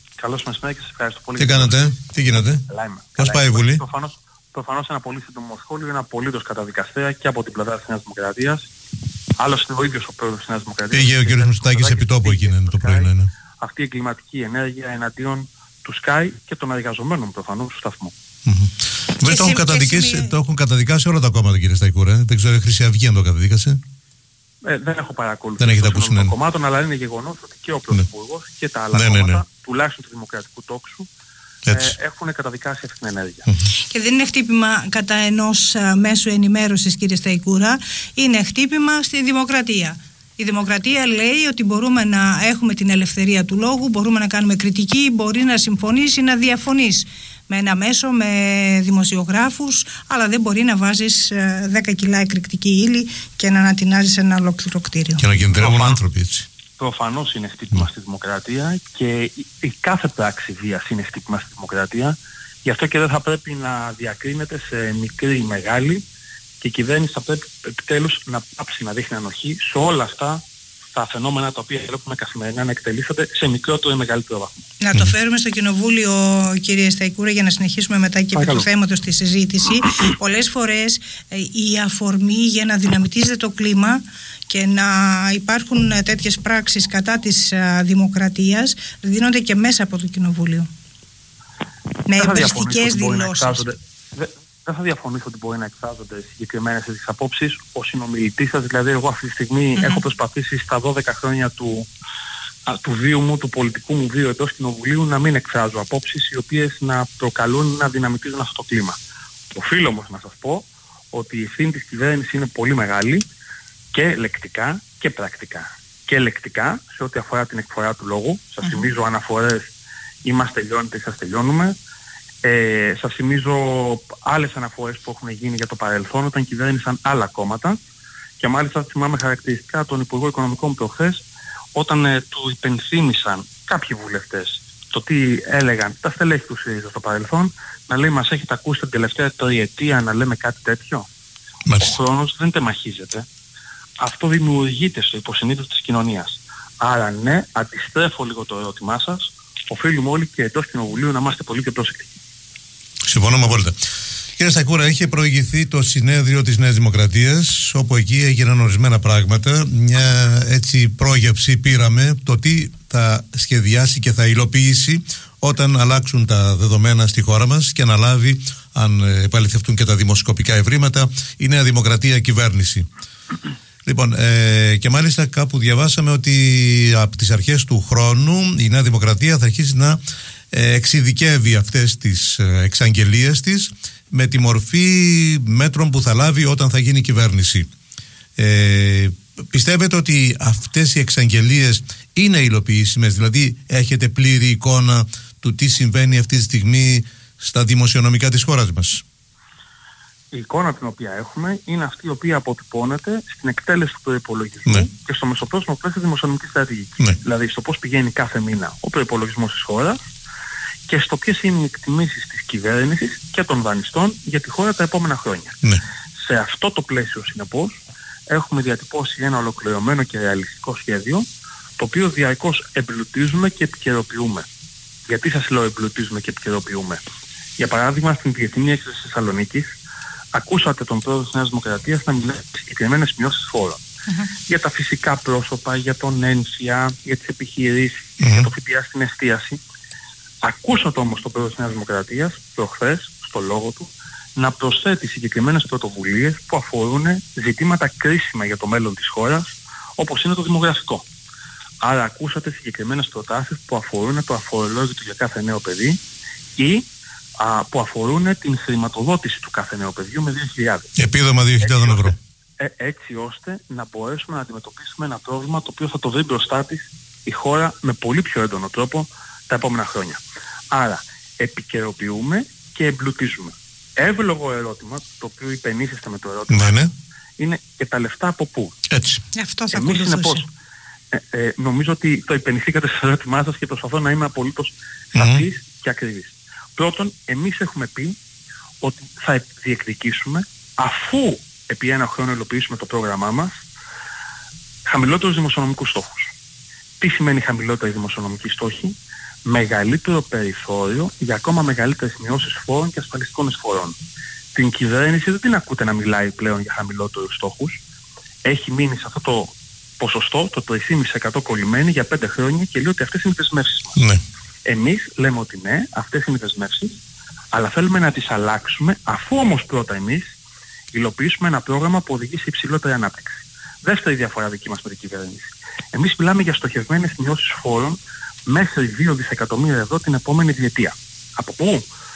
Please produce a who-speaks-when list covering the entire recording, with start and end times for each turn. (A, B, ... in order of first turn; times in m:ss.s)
0:00.2-0:08.6 A
0:01.4-0:02.6 B
0:03.2-0:03.8 B
0:09.4-0:18.1 A
0:10.9-0:13.3 B
0:18.4-0:23.8 B
0:19.2-0:20.3 C
0:24.6-0:31.1 A
0:25.6-0:26.3 B
0:28.9-0:29.4 B
0:31.6-0:31.9 B
0:31.7-0:33.5 A
0:33.9-0:55.2 C
0:55.2-0:56.5 B
0:55.6-0:56.0 A
0:56.8-1:06.0 A
1:06.6-1:10.4 A
1:10.9-1:14.5 A
1:14.8-1:30.7 C
1:18.3-1:18.6 A
1:32.0-1:33.6 C
1:32.2-1:41.9 A
1:39.8-1:40.0 C
1:42.7-1:49.0 A
1:49.5-1:53.2 A
1:53.9-1:59.6 A
2:00.2-2:01.8 A
2:02.4-2:07.8 A
2:08.4-2:11.2 A
2:11.7-2:21.1 A
2:21.7-2:22.0 B
2:21.8-2:23.2 A
2:24.0-2:32.1 A
2:33.0-2:33.7 B
2:34.4-2:52.9 B
2:53.8-3:00.0 B
3:00.5-3:07.7 B
3:08.4-3:19.0 B
3:20.3-3:30.0 A
3:30.9-3:35.6 A
3:36.2-3:37.8 A
3:38.3-3:41.2 A
3:41.8-3:44.4 A
3:45.1-3:47.0 A
3:47.6-3:49.7 A
3:50.3-3:53.8 A
3:54.5-3:59.6 A
3:58.2-3:58.5 B
4:00.4-4:11.0 A
4:11.8-4:16.0 A
4:16.6-4:16.8 A
4:17.4-4:20.9 A
4:21.0-4:22.2 B
4:21.6-4:30.2 A
4:30.7-4:36.8 A
4:36.5-4:36.9 B
4:37.4-4:38.8 A
4:38.9-4:39.2 B
4:39.3-4:40.4 C
4:39.7-4:40.4 A
4:41.1-4:48.2 A
4:45.1-4:45.4 B
4:48.8-4:53.5 A
4:54.8-4:56.3 A
4:57.0-5:04.0 A
5:04.5-5:07.8 A
5:08.4-5:14.0 A
5:14.0-5:14.2 B
5:14.6-5:17.0 A
5:17.5-5:20.2 A
5:20.9-5:31.8 A